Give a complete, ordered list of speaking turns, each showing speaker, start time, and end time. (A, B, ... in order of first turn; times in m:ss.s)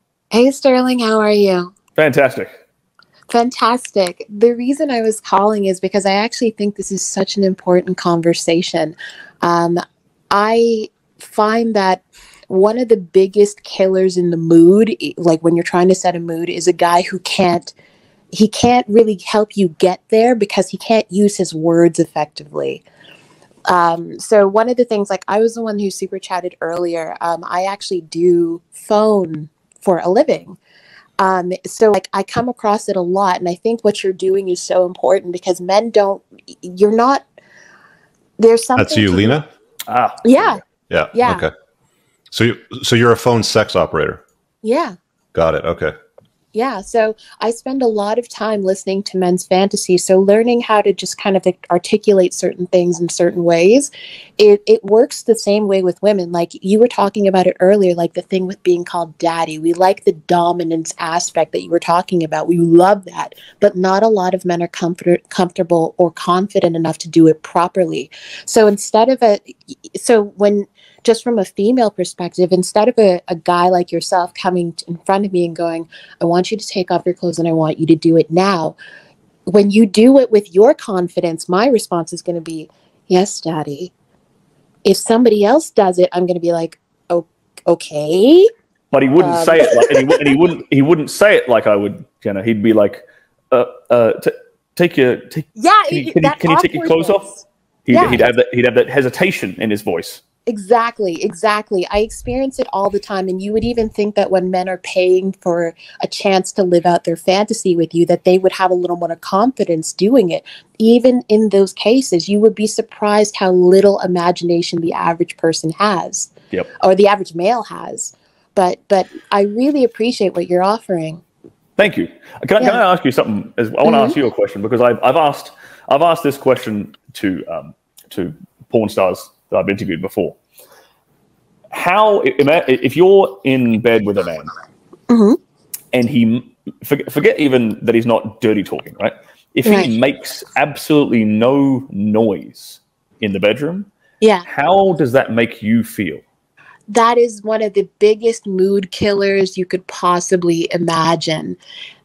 0:00.3-0:01.7 A
0:02.0-0:02.5 B
0:03.3-0:09.8 A
0:10.3-0:17.7 A
0:18.3-0:22.8 A
0:23.7-0:30.6 A
0:31.2-0:37.2 A
0:38.4-0:39.4 A
0:38.7-0:39.5 C
0:39.9-0:40.6 B
0:40.2-0:40.6 A
0:40.9-0:41.5 C
0:41.1-0:41.5 A
0:42.3-0:44.2 C
0:44.6-0:44.9 A
0:45.3-0:45.9 C
0:46.5-1:18.8 A
1:19.5-1:23.9 A
1:24.8-1:28.5 A
1:28.9-1:37.3 B
1:29.2-1:30.3 A
1:35.6-1:38.3 A
1:37.8-1:40.2 B
1:40.5-2:01.2 A
2:01.8-2:10.4 B
2:02.6-2:02.8 A
2:03.8-2:04.2 A
2:11.7-2:14.5 B
2:15.1-2:15.4 A
2:15.9-2:23.9 B
2:19.6-2:19.9 A
2:24.4-2:26.2 B
2:26.9-2:31.6 A